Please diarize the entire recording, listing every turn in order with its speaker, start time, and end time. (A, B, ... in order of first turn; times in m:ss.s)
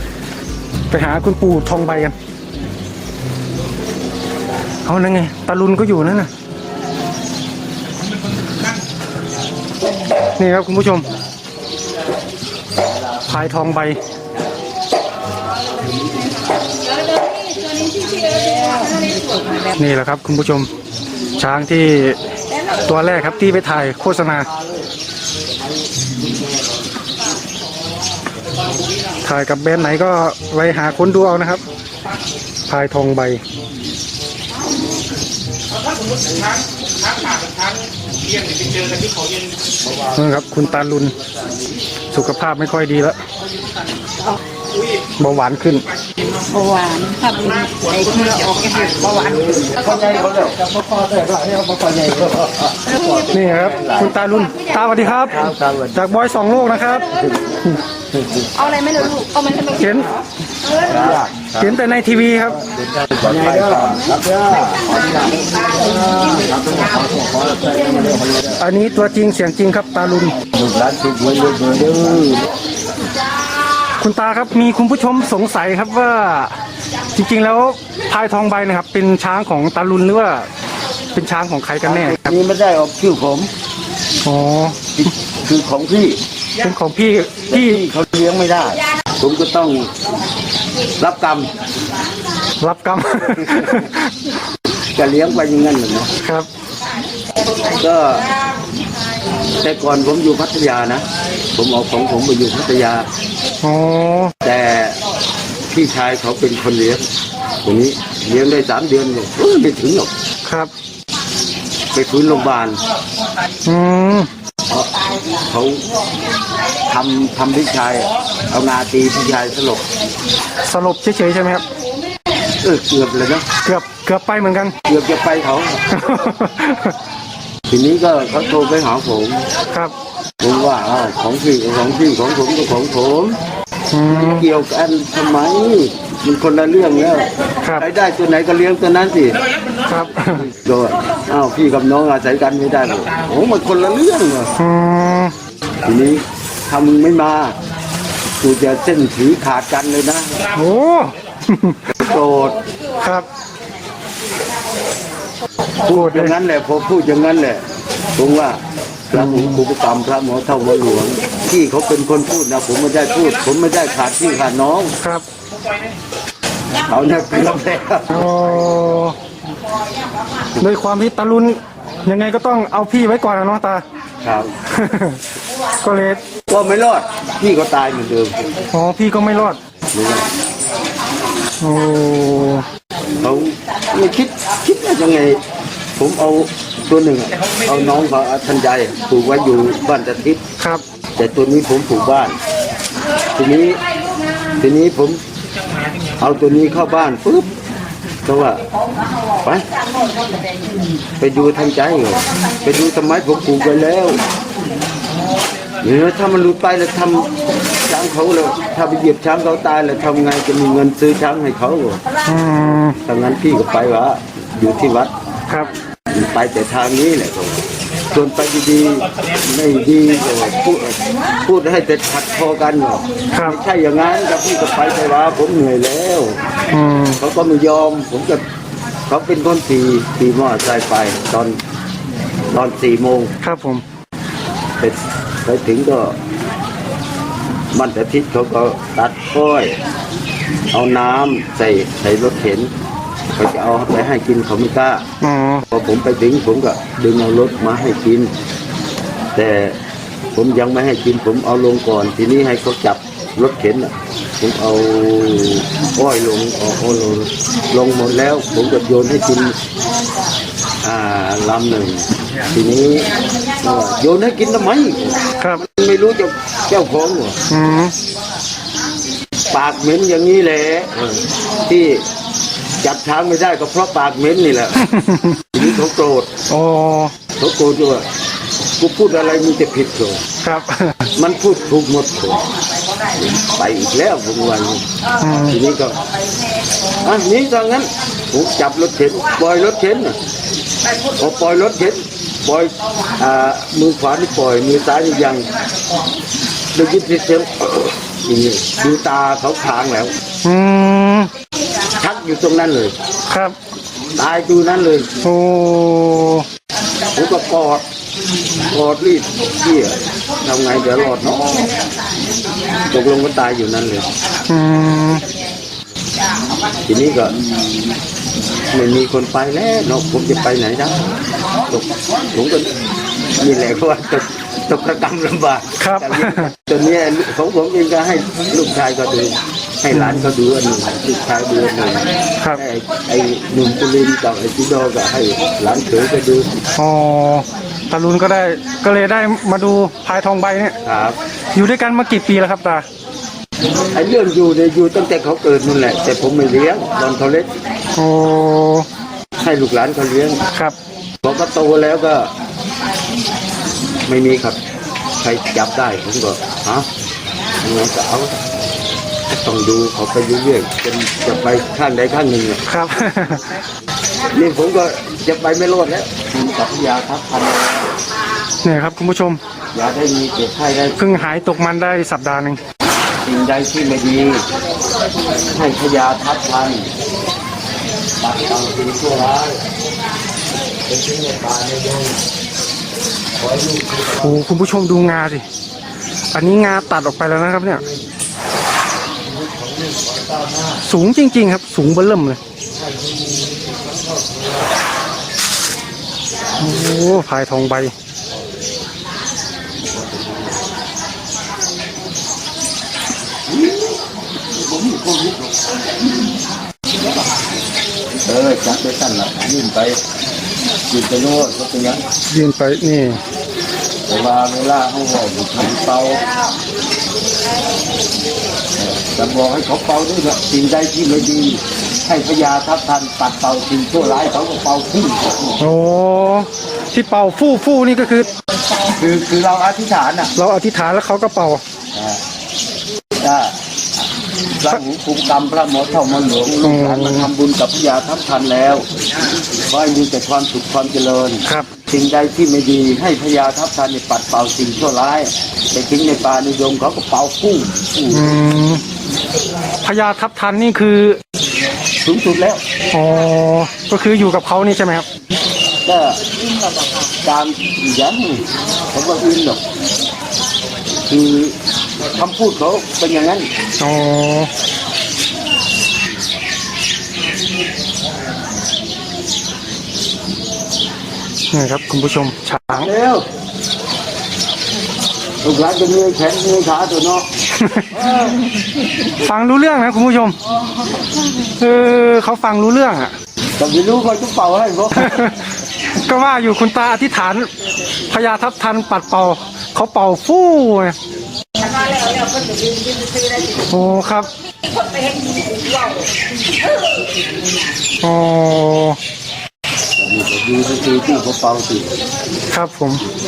0:00.9-0:02.1 A
0:04.8-0:06.3 A
0:10.4-0:11.1 A
0:13.2-0:14.0 A
0:17.5-0:19.7 B
0:19.8-0:20.7 A
0:21.4-0:22.2 A
0:22.9-0:24.5 A
0:29.2-0:31.6 A
0:32.7-0:33.4 A
0:40.1-0:41.1 A
0:42.1-0:43.2 A
0:45.2-0:45.8 A
0:46.5-0:50.2 B
0:49.6-0:54.1 C
0:52.8-0:53.3 B
0:53.3-0:57.1 A
0:55.2-0:56.0 C
0:58.1-0:58.4 C
0:58.5-1:01.2 B
0:59.7-1:00.1 A
1:00.8-1:01.7 C
1:01.6-1:02.6 A
1:02.9-1:08.5 C
1:08.6-1:10.4 A
1:10.5-1:12.5 C
1:14.0-1:16.5 A
1:17.1-1:20.5 A
1:21.1-1:22.4 A
1:21.8-1:23.5 C
1:24.2-1:24.8 A
1:24.9-1:26.2 C
1:26.6-1:27.8 A
1:27.5-1:30.0 C
1:31.0-1:31.5 C
1:32.6-1:34.1 A
1:33.4-1:33.8 C
1:34.9-1:36.1 C
1:36.2-1:36.5 A
1:37.6-1:38.3 C
1:39.6-1:43.1 C
1:43.6-1:44.3 A
1:44.4-1:45.0 C
1:45.7-1:47.0 C
1:47.6-1:50.1 C
1:50.4-1:50.7 A
1:51.9-1:52.8 C
1:53.6-1:54.3 A
1:54.7-1:55.8 C
1:56.9-1:59.8 C
2:00.6-2:01.6 A
2:02.6-2:03.5 C
2:03.6-2:04.7 A
2:04.8-2:05.8 C
2:05.9-2:07.0 A
2:07.7-2:09.4 C
2:10.4-2:13.4 C
2:13.9-2:14.5 A
2:14.0-2:19.4 C
2:19.8-2:20.4 A
2:20.4-2:24.5 C
2:24.6-2:25.3 A
2:25.8-2:27.6 C
2:28.4-2:30.4 C
2:30.5-2:31.8 A
2:32.0-2:32.6 C
2:33.0-2:33.3 A
2:35.8-2:37.6 C
2:35.8-2:36.4 A
2:38.2-2:44.9 C
2:39.1-2:39.6 A
2:45.0-2:45.2 A
2:46.8-2:48.3 C
2:48.1-2:49.2 A
2:50.6-2:53.8 A
2:54.2-2:54.5 C
2:54.6-2:55.2 A
2:55.8-2:56.2 A
2:56.5-2:58.5 C
2:58.7-2:59.6 A
2:59.9-3:00.3 C
3:01.6-3:02.6 A
3:03.2-3:05.4 C
3:06.0-3:10.4 C
3:11.2-3:12.4 C
3:13.3-3:13.8 C
3:14.6-3:15.2 C
3:16.2-3:17.5 C
3:18.2-3:18.6 C
3:21.2-3:24.2 C
3:25.8-3:27.3 C
3:27.8-3:32.0 C
3:32.2-3:33.0 A
3:33.0-3:35.1 C
3:36.1-3:46.4 C
3:43.3-3:43.6 A
3:46.7-3:47.2 A
3:47.2-3:48.4 C
3:49.1-3:51.6 C
3:52.5-3:53.3 C
3:53.4-3:53.8 A
3:54.8-3:56.2 C
3:57.7-3:59.8 C
4:00.7-4:02.7 C
4:03.3-4:05.0 C
4:05.2-4:05.6 A
4:05.7-4:08.3 C
4:09.3-4:09.8 C
4:10.3-4:19.5 C
4:20.8-4:27.4 C
4:27.5-4:27.9 A
4:29.5-4:32.0 C
4:32.8-4:34.9 C
4:34.8-4:35.6 A
4:35.5-4:36.3 C
4:36.5-4:37.1 A
4:37.4-4:38.0 C
4:38.8-4:40.2 C
4:40.4-4:41.1 A
4:41.2-4:42.4 C
4:43.2-4:44.8 C
4:45.2-4:45.6 A
4:45.5-4:46.0 C
4:47.0-4:50.2 C
4:51.0-4:55.5 C
4:56.7-5:00.1 C
5:00.4-5:01.3 A
5:02.0-5:02.9 C
5:03.3-5:03.6 A
5:04.2-5:05.1 C
5:05.2-5:06.4 A
5:07.1-5:07.8 C
5:08.7-5:11.7 C
5:12.9-5:14.1 C
5:14.5-5:15.2 A
5:16.8-5:17.4 C
5:18.7-5:21.0 C
5:21.7-5:22.7 C
5:23.4-5:36.5 C
5:25.8-5:26.5 A
5:29.9-5:30.3 A
5:36.8-5:40.8 A
5:40.8-5:41.2 C
5:41.5-5:42.8 A
5:43.9-5:47.5 C
5:47.9-5:48.9 A
5:49.4-5:50.4 C
5:51.2-5:52.3 C
5:54.0-5:54.6 C
5:55.2-5:56.9 C
5:57.6-5:58.4 C
5:59.3-6:02.6 C
6:02.7-6:03.6 A
6:04.3-6:07.8 C
6:08.6-6:09.4 A
6:09.7-6:11.0 C
6:11.0-6:12.6 A
6:13.2-6:14.4 C
6:15.5-6:16.9 C
6:18.2-6:19.6 C
6:20.9-6:22.2 C
6:23.4-6:24.4 C
6:24.2-6:25.4 A
6:26.3-6:27.8 A
6:29.4-6:30.8 C
6:30.8-6:32.4 A
6:36.6-6:37.9 A
6:43.5-6:44.0 C
6:44.5-6:45.7 C
6:48.3-6:50.0 C
6:50.9-6:52.0 C
6:52.3-6:53.2 A
6:54.1-6:56.3 C
6:58.8-7:05.6 C
7:05.6-7:08.3 A
7:08.8-7:10.3 C
7:10.4-7:11.6 A
7:11.9-7:12.2 C
7:13.1-7:13.6 C
7:14.5-7:18.9 C
7:16.6-7:17.3 A
7:19.5-7:28.4 C
7:28.1-7:28.8 A
7:29.8-7:31.2 A
7:32.0-7:32.6 C
7:32.9-7:35.1 A
7:35.8-7:36.2 C
7:37.2-7:39.6 C
7:41.0-7:43.5 C
7:43.8-7:44.5 A
7:51.5-7:52.9 A
7:52.7-7:53.2 C
7:55.4-7:57.3 C
7:57.5-7:58.0 A
7:57.9-7:58.4 C
7:59.1-8:00.4 A
8:01.6-8:03.1 A
8:03.6-8:05.3 C
8:04.9-8:05.4 A
8:06.0-8:07.5 A
8:08.1-8:11.0 A
8:12.0-8:13.5 B
8:13.6-8:14.3 A
8:14.9-8:15.9 B
8:18.0-8:19.0 A
8:20.0-8:21.9 C
8:22.5-8:23.0 A